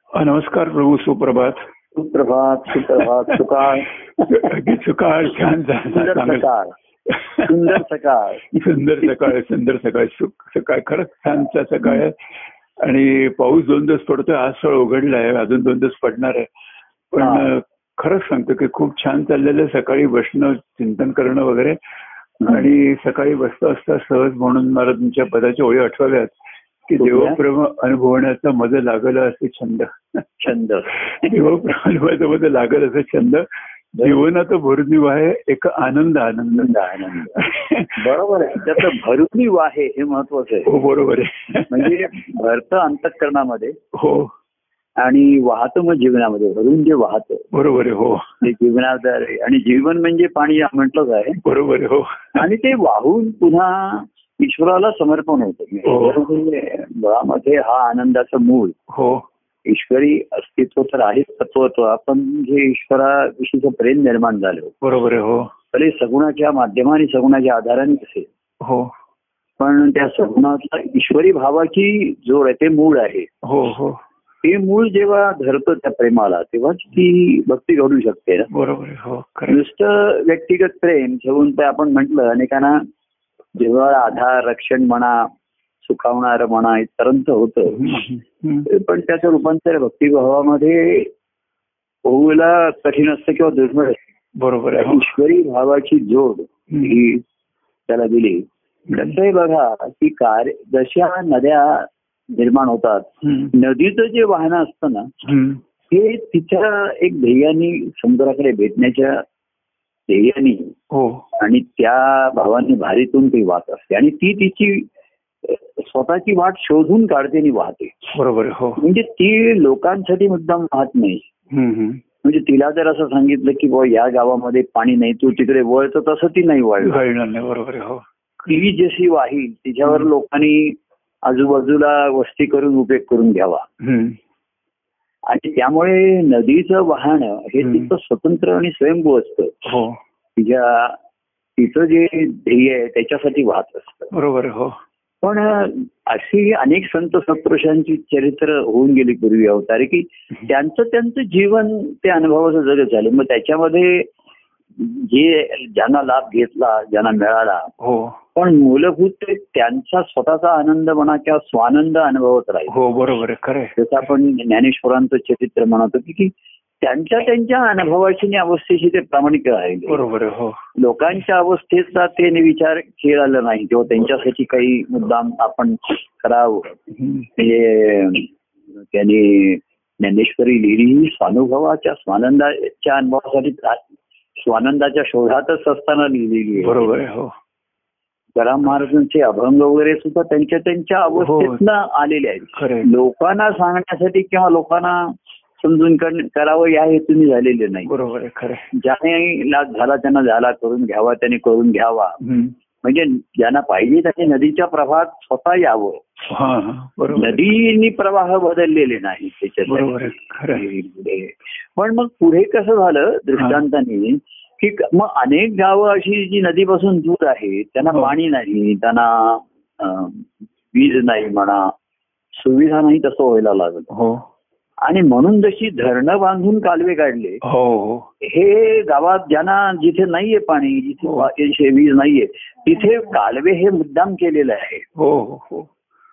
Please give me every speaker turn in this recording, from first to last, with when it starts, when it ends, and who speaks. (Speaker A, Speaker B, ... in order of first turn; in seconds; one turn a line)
Speaker A: 0.1-1.7
Speaker B: 1.9-4.6
Speaker A: 2.8-3.0
Speaker A: 4.3-6.5
Speaker B: 5.9-6.8
Speaker A: 7.1-7.5
Speaker B: 7.4-8.7
Speaker A: 8.6-12.2
Speaker A: 12.8-16.5
Speaker A: 17.1-21.8
Speaker B: 17.2-17.5
Speaker A: 22.4-26.3
Speaker A: 26.9-30.2
Speaker B: 27.0-27.4
Speaker B: 30.4-31.4
Speaker A: 31.2-33.5
Speaker B: 34.0-34.3
Speaker A: 34.0-36.7
Speaker B: 36.5-37.5
Speaker A: 37.4-38.1
Speaker B: 38.0-40.7
Speaker A: 40.7-41.9
Speaker B: 41.7-43.8
Speaker A: 43.9-44.3
Speaker B: 45.0-47.5
Speaker A: 47.5-48.4
Speaker B: 48.4-51.4
Speaker A: 51.4-52.2
Speaker B: 52.4-58.8
Speaker A: 55.9-56.2
Speaker A: 58.9-59.2
Speaker B: 59.7-64.7
Speaker A: 64.8-65.5
Speaker B: 65.7-68.3
Speaker A: 68.6-68.9
Speaker B: 69.6-73.3
Speaker A: 73.4-74.0
Speaker B: 74.4-78.5
Speaker A: 78.5-79.6
Speaker B: 79.5-82.8
Speaker B: 83.5-85.3
Speaker B: 85.8-87.9
Speaker A: 87.7-88.7
Speaker B: 88.7-91.1
Speaker B: 92.0-94.0
Speaker A: 94.4-95.1
Speaker B: 94.8-97.2
Speaker B: 97.9-105.1
Speaker A: 103.2-103.5
Speaker A: 105.2-105.6
Speaker B: 105.9-109.2
Speaker B: 110.1-110.8
Speaker A: 110.9-111.2
Speaker B: 111.4-114.9
Speaker B: 115.5-118.1
Speaker A: 118.1-118.8
Speaker B: 118.8-121.3
Speaker A: 121.5-122.0
Speaker B: 122.2-127.0
Speaker A: 126.8-128.1
Speaker B: 128.4-133.7
Speaker A: 133.8-134.2
Speaker B: 135.3-139.6
Speaker A: 137.6-137.9
Speaker A: 139.7-140.0
Speaker B: 140.4-141.0
Speaker B: 141.6-144.1
Speaker A: 144.1-144.8
Speaker B: 145.2-154.1
Speaker B: 154.8-157.7
Speaker A: 157.8-158.2
Speaker B: 158.3-162.7
Speaker A: 162.7-163.8
Speaker B: 163.8-170.0
Speaker A: 169.9-170.6
Speaker B: 170.8-176.8
Speaker A: 177.0-177.3
Speaker B: 177.4-178.3
Speaker B: 178.9-183.8
Speaker B: 184.4-186.9
Speaker A: 186.6-187.3
Speaker B: 188.3-197.9
Speaker A: 191.2-191.6
Speaker A: 192.6-192.9
Speaker A: 197.8-198.7
Speaker B: 198.7-202.2
Speaker A: 202.2-202.5
Speaker B: 202.8-206.1
Speaker A: 206.3-207.5
Speaker B: 207.1-221.7
Speaker A: 209.7-210.7
Speaker B: 222.4-223.9
Speaker A: 223.9-224.2
Speaker B: 224.8-227.4
Speaker A: 227.4-228.1
Speaker B: 228.2-234.8
Speaker A: 235.0-235.7